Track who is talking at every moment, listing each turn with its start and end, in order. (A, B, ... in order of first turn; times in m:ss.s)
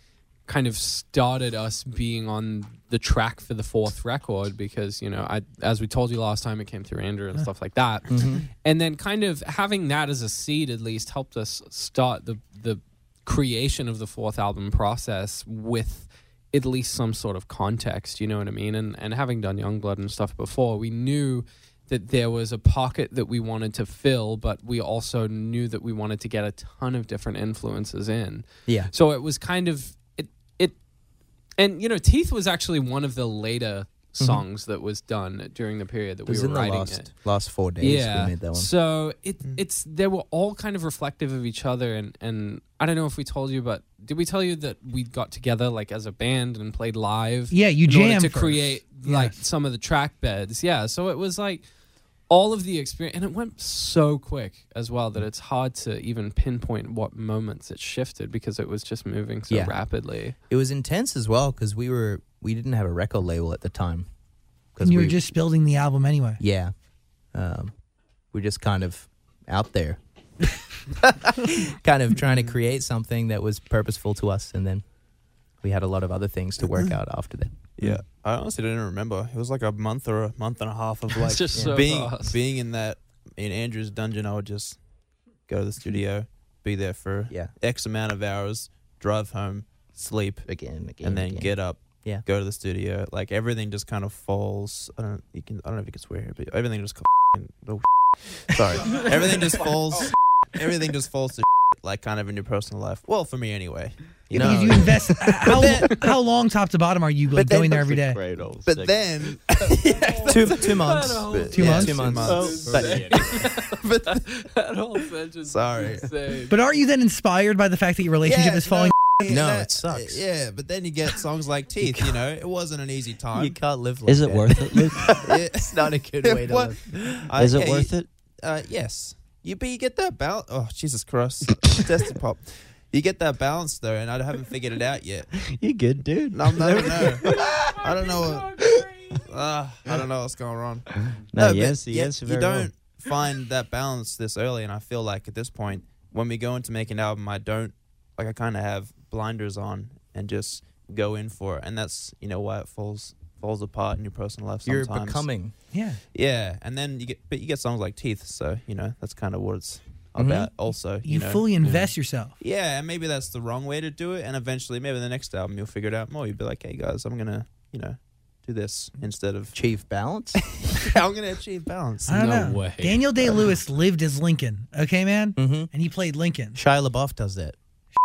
0:00.5-0:30.8 A
0:08.1-0:08.5 B
0:28.7-0:28.9 B
0:31.6-0:37.1 A
0:34.2-0:34.4 B
0:36.3-0:38.7 B
0:37.8-0:51.6 A
0:47.5-0:49.4 C
0:52.3-1:00.4 A
0:59.5-0:59.8 B
1:00.5-1:04.1 B
1:04.8-1:05.2 B
1:04.8-1:06.4 C
1:06.4-1:06.7 B
1:07.3-1:07.7 B
1:08.3-1:10.0 B
1:10.9-1:14.8 B
1:15.6-1:17.9 B
1:17.8-1:24.8 D
1:21.1-1:22.4 A
1:21.5-1:21.8 B
1:25.5-1:30.5 D
1:30.5-1:32.2 B
1:31.0-1:44.5 D
1:38.5-1:39.1 B
1:44.3-1:45.1 E
1:44.3-1:44.9 B
1:44.4-1:48.2 C
1:45.6-1:45.8 D
1:47.4-1:49.0 E
1:48.6-1:50.8 D
1:49.9-1:56.5 A
1:50.2-1:52.9 B
1:51.5-1:53.1 D
1:51.6-1:51.9 C
1:52.2-1:53.4 E
1:53.8-1:54.2 D
1:55.5-1:56.1 D
1:56.5-1:59.1 C
1:58.3-2:03.6 D
1:59.2-2:00.2 B
2:01.8-2:02.1 B
2:03.3-2:07.3 B
2:04.1-2:05.2 E
2:05.1-2:15.3 D
2:07.4-2:08.1 E
2:15.3-2:17.7 E
2:16.3-2:35.3 D
2:21.0-2:22.7 E
2:34.6-2:35.5 B
2:35.7-2:36.0 C
2:36.1-2:41.7 D
2:40.2-2:40.5 B
2:41.0-2:42.4 C
2:42.4-2:49.6 D
2:49.5-2:50.4 B
2:50.5-2:52.4 D
2:52.1-2:56.6 C
2:52.1-2:53.3 A
2:55.4-2:55.7 B
2:56.6-2:57.6 B